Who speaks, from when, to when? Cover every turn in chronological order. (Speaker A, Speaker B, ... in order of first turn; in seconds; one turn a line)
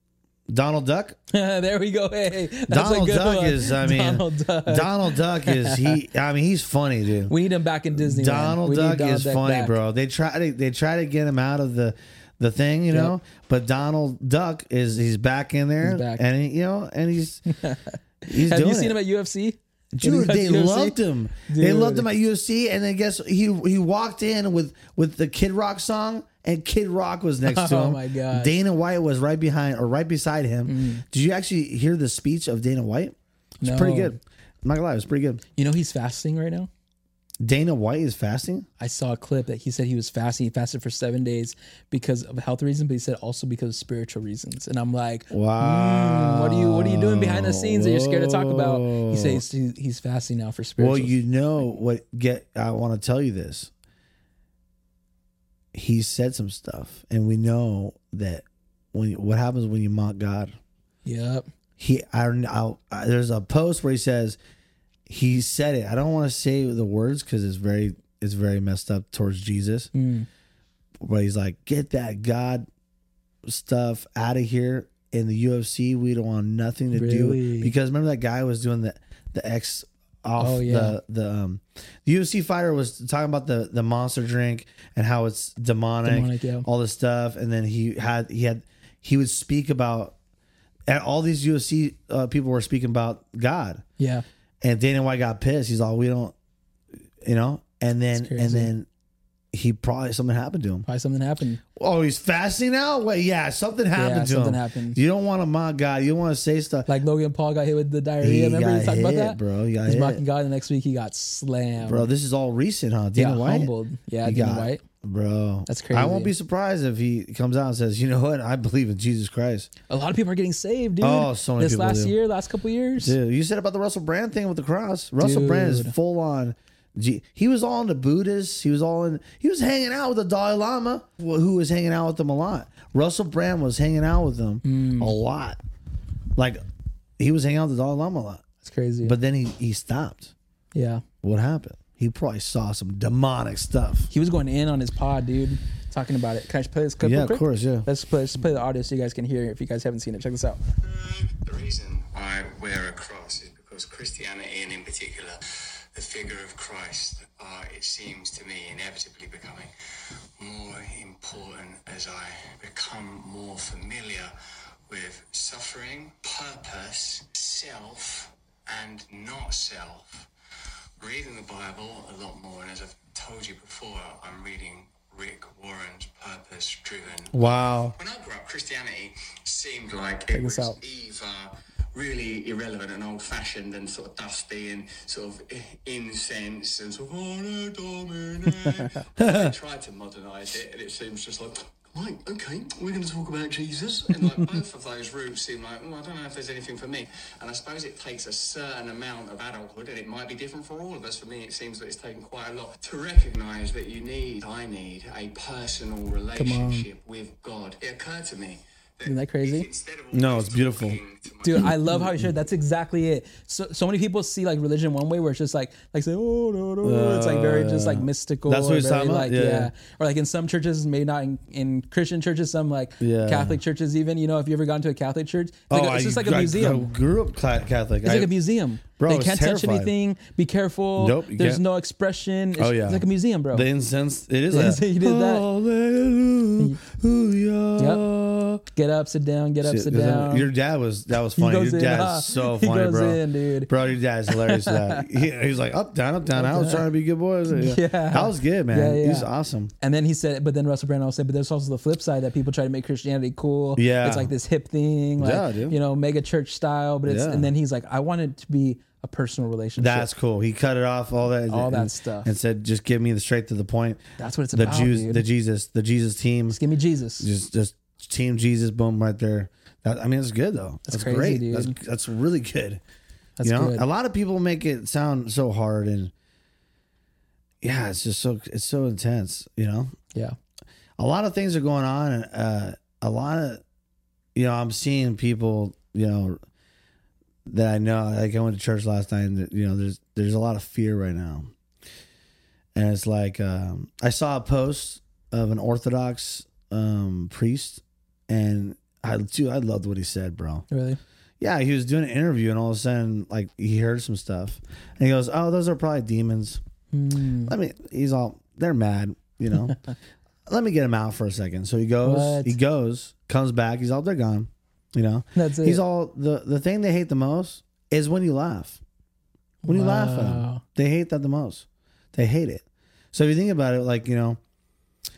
Speaker A: 0.5-1.2
Speaker B: 1.3-6.0
Speaker A: 2.7-7.3
Speaker B: 7.3-9.8
Speaker A: 7.9-17.4
Speaker B: 12.9-13.2
Speaker B: 15.8-16.2
Speaker B: 17.5-22.1
Speaker A: 18.3-19.0
Speaker A: 19.9-35.4
Speaker B: 27.4-28.5
Speaker B: 30.6-31.0
Speaker B: 33.6-34.2
Speaker B: 35.6-36.7
Speaker A: 37.4-38.6
Speaker B: 38.8-51.1
Speaker A: 45.3-49.4
Speaker A: 50.8-53.7
Speaker A: 55.7-60.5
Speaker B: 61.0-61.5
Speaker A: 61.8-64.4
Speaker A: 65.1-69.9
Speaker B: 69.9-70.3
Speaker A: 71.0-72.7
Speaker A: 73.4-90.2
Speaker B: 76.9-77.7
Speaker B: 80.4-81.0
Speaker B: 86.0-86.7
Speaker A: 90.9-93.8
Speaker B: 94.0-94.2
Speaker A: 94.6-96.3
Speaker A: 97.2-98.9
Speaker B: 98.2-98.7
Speaker A: 99.5-100.8
Speaker B: 100.8-101.6
Speaker A: 101.8-106.9
Speaker B: 103.9-105.0
Speaker B: 106.9-112.1
Speaker A: 108.2-110.2
Speaker A: 111.8-113.7
Speaker B: 113.2-114.8
Speaker A: 114.2-119.7
Speaker B: 115.7-116.3
Speaker B: 119.9-123.2
Speaker A: 121.0-122.1
Speaker A: 123.0-135.6
Speaker B: 125.2-125.9
Speaker B: 134.6-135.2
Speaker A: 137.2-138.4
Speaker B: 138.6-139.2
Speaker A: 139.0-140.3
Speaker B: 140.7-141.0
Speaker A: 141.2-144.1
Speaker B: 144.1-150.6
Speaker A: 147.0-147.9
Speaker C: 150.8-159.7
Speaker C: 160.4-164.3
Speaker C: 164.9-170.3
Speaker C: 171.0-211.8
Speaker A: 177.3-177.9
Speaker B: 180.3-180.8
Speaker A: 189.2-189.5
Speaker B: 206.3-206.9
Speaker B: 209.0-209.7
Speaker A: 210.1-211.0
Speaker B: 211.4-226.9
Speaker A: 211.5-212.3
Speaker A: 216.8-219.7
Speaker A: 223.0-223.6
Speaker A: 225.7-228.3
Speaker B: 228.0-233.7
Speaker A: 229.0-229.9
Speaker A: 231.0-231.6
Speaker A: 232.6-238.6
Speaker B: 234.5-235.5
Speaker B: 237.8-238.0
Speaker B: 238.7-240.5
Speaker A: 239.6-249.7
Speaker B: 241.3-243.7
Speaker B: 244.3-245.1
Speaker B: 246.3-246.8
Speaker B: 247.5-249.3
Speaker B: 249.8-260.1
Speaker A: 253.8-254.3
Speaker A: 255.2-255.8
Speaker A: 257.1-257.5
Speaker A: 259.8-264.0
Speaker B: 261.5-262.3
Speaker B: 264.2-265.2
Speaker A: 264.5-266.6
Speaker B: 266.5-267.3
Speaker A: 267.2-272.8
Speaker B: 270.9-271.7
Speaker B: 273.4-273.9
Speaker A: 273.4-276.1
Speaker A: 277.6-279.9
Speaker A: 281.0-283.6
Speaker A: 284.3-286.4
Speaker A: 287.5-291.5
Speaker A: 292.7-300.6
Speaker B: 300.7-301.0
Speaker A: 301.4-306.6
Speaker B: 306.9-307.5
Speaker A: 307.4-309.8
Speaker A: 310.5-318.8
Speaker B: 312.0-312.6
Speaker B: 315.3-315.8
Speaker B: 319.6-320.6
Speaker A: 319.6-324.4